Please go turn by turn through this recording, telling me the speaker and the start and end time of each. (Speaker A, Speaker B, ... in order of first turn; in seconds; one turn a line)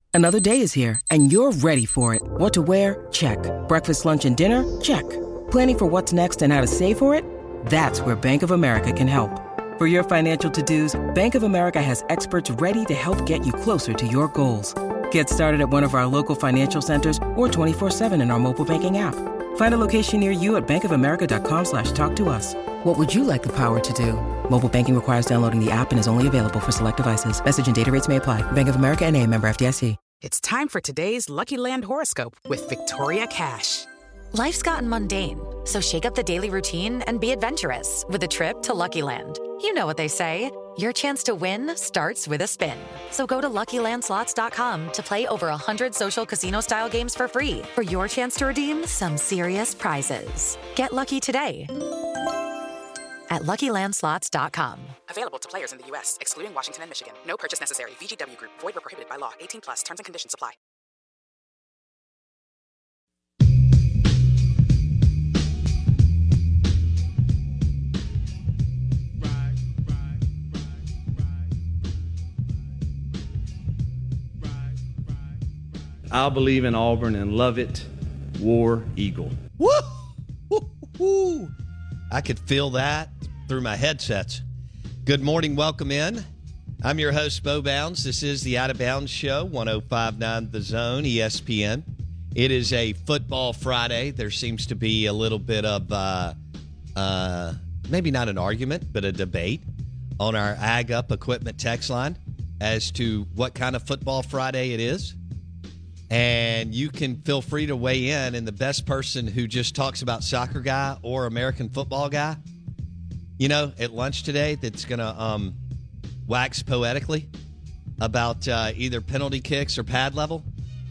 Speaker A: 0.1-30.0
Speaker B: 30.2-33.9
Speaker C: 34.3-51.7
Speaker C: 53.3-54.9
Speaker B: 55.1-60.5
Speaker D: 76.1-77.8
Speaker D: 78.4-79.3
Speaker E: 79.6-81.5
Speaker E: 82.1-84.4
Speaker E: 85.0-86.2
Speaker E: 86.8-96.3
Speaker E: 97.0-99.6
Speaker E: 100.2-105.2
Speaker E: 106.1-112.4
Speaker E: 113.4-115.6
Speaker E: 116.3-117.3
Speaker E: 118.0-120.5